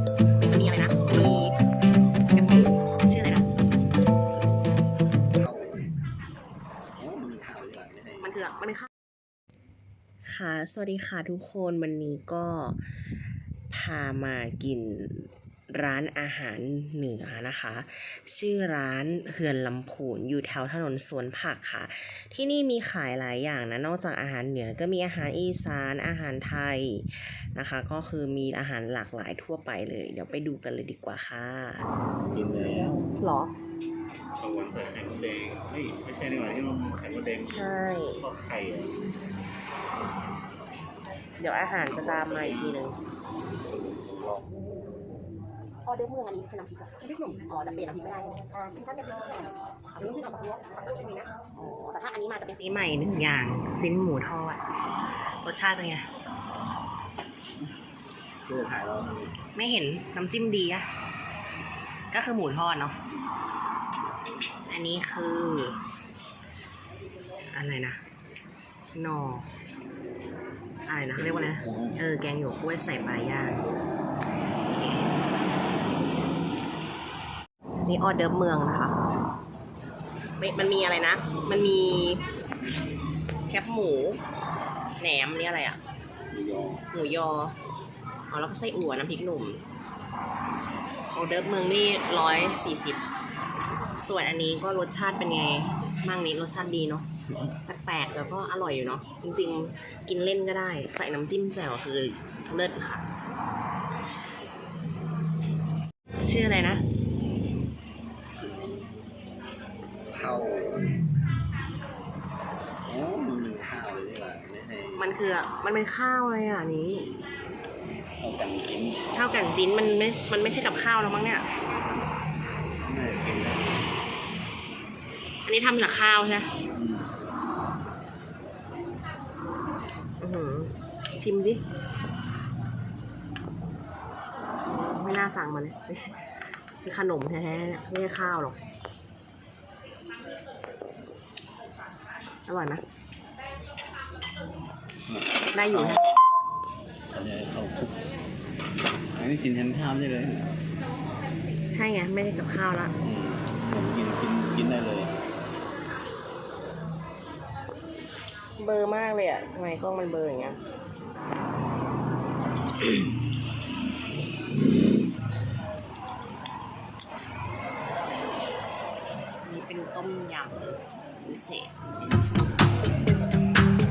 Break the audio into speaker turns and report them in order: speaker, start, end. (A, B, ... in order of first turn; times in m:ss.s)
0:00.4-0:01.5 A
0:02.3-0:03.0 A
0:03.0-0:03.4 B
0:05.3-0:06.0 C
0:07.0-0:08.4 C
0:08.2-0:08.9 B
0:10.2-0:13.1 B
0:13.7-0:31.9 B
0:32.3-0:33.1 C
0:33.2-0:33.5 B
0:34.4-0:37.6 C
0:37.4-0:38.2 B
0:38.2-0:39.0 C
0:41.4-0:43.0 B
0:42.1-0:42.7 C
0:43.7-0:44.4 C
0:45.8-0:52.6 A
0:52.6-0:54.6 B
0:55.4-0:56.1 B
0:58.4-0:59.3 C
0:59.5-1:00.9 B
1:02.1-1:03.0 B
1:04.7-1:05.8 B
1:07.5-1:08.0 B
1:08.9-1:09.5 B
1:10.8-1:13.6 B
1:11.2-1:12.0 C
1:14.6-1:15.1 B
1:17.8-1:19.0 B
1:20.4-1:22.2 B
1:23.5-1:24.2 B
1:25.0-1:25.8 B
1:26.3-1:26.9 C
1:26.9-1:27.6 B
1:28.3-1:29.6 B
1:31.1-1:33.0 B
1:33.9-1:43.0 B
1:46.2-1:46.8 B
1:48.4-1:48.9 C
1:50.1-1:51.0 C
1:52.8-1:55.1 C
1:55.0-1:57.1 B
1:58.2-1:59.0 C
1:59.1-2:01.4 B
2:02.8-2:03.7 C
2:05.4-2:06.5 B
2:06.7-2:07.1 C
2:10.2-2:11.6 B
2:14.7-2:18.6 B
2:22.4-2:22.8 B
2:25.1-2:26.2 C
2:25.5-2:26.0 B
2:27.1-2:28.0 C
2:29.1-2:30.6 C
2:31.7-2:32.9 B
2:33.0-2:35.2 C
2:38.6-2:40.6 B
2:49.4-2:52.7 B